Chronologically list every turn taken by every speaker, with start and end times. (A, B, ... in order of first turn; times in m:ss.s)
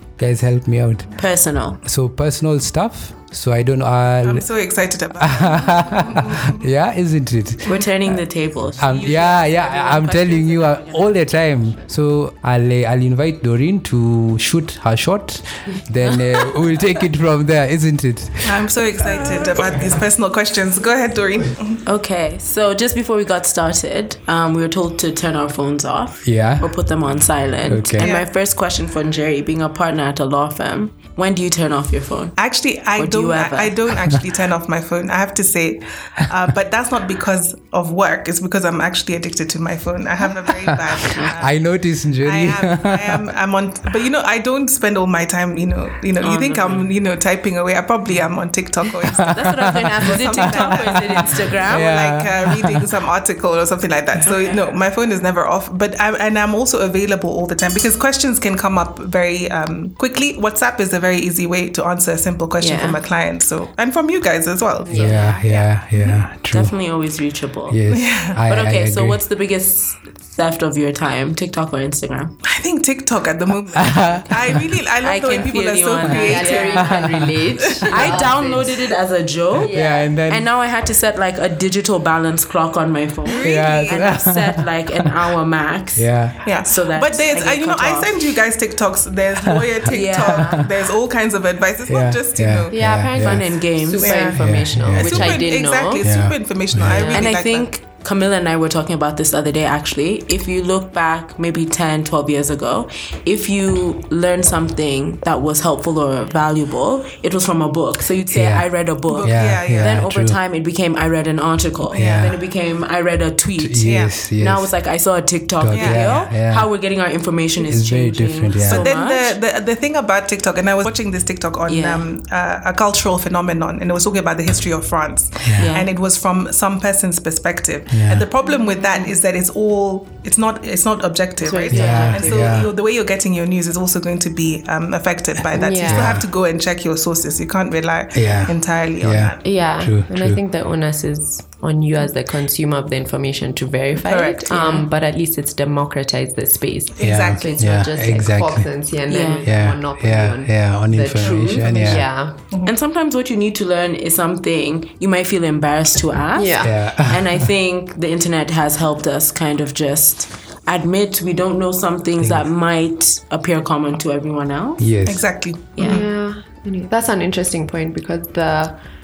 0:00.2-0:01.1 A
0:01.2-0:01.8 B
0:01.8-0:04.4 A
0:04.2-0:06.5 C
0:05.2-0:08.2 A
0:07.6-0:11.1 B
0:08.8-0:19.6 A
0:18.4-0:21.8 C
0:21.8-0:32.4 B
0:26.2-0:26.7 A
0:27.6-0:28.1 A
0:28.0-0:28.2 C
0:32.4-0:41.6 C
0:33.0-0:33.7 B
0:40.6-0:43.3 A
0:41.1-0:41.3 B
0:42.2-1:06.2 C
0:46.2-0:46.9 B
0:49.1-0:52.9 A
0:49.2-0:51.9 B
0:54.2-0:54.6 B
1:02.6-1:03.0 B
1:04.8-1:05.5 D
1:04.9-1:06.8 A
1:06.5-1:07.8 B
1:07.7-1:09.2 A
1:07.9-1:08.4 C
1:08.4-1:12.4 B
1:12.4-1:16.9 C
1:13.7-1:14.6 A
1:15.0-1:17.0 B
1:16.2-1:18.9 D
1:16.8-1:17.5 A
1:17.8-1:18.2 C
1:17.8-1:19.7 B
1:19.6-1:20.2 D
1:19.6-1:20.5 A
1:20.3-1:28.4 B
1:23.3-1:24.2 C
1:23.4-1:25.1 A
1:25.9-1:26.4 A
1:26.4-1:32.7 C
1:29.8-1:30.6 B
1:30.2-1:30.5 A
1:31.8-1:33.6 A
1:32.7-1:36.1 D
1:33.1-1:34.2 B
1:34.0-1:37.7 C
1:34.4-1:35.5 A
1:36.0-1:37.1 A
1:36.8-1:37.3 D
1:37.1-1:59.4 B
1:48.3-1:50.4 A
1:49.1-1:50.0 C
1:51.9-1:52.4 A
1:51.9-1:52.3 C
1:53.6-1:54.7 A
1:53.8-1:54.1 C
1:55.6-1:56.7 A
1:55.7-1:56.1 C
1:57.6-1:58.9 A
1:58.6-2:19.4 C
2:01.6-2:02.0 B
2:05.4-2:05.7 A
2:05.6-2:05.9 B
2:07.9-2:08.3 A
2:08.5-2:09.1 D
2:11.4-2:12.7 D
2:11.7-2:12.7 A
2:15.5-2:16.2 D
2:15.8-2:16.2 A
2:18.1-2:20.4 A
2:19.4-2:32.4 D
2:24.0-2:24.8 C
2:27.0-2:27.7 C
2:27.0-2:28.7 A
2:29.1-2:29.4 B
2:29.4-2:32.0 A
2:31.4-2:31.9 C
2:32.6-2:44.9 B
2:36.4-2:36.8 D
2:36.6-2:37.5 A
2:42.2-2:42.4 A
2:44.8-2:45.3 A
2:45.0-2:46.0 C
2:45.8-2:46.0 B
2:45.8-2:48.8 D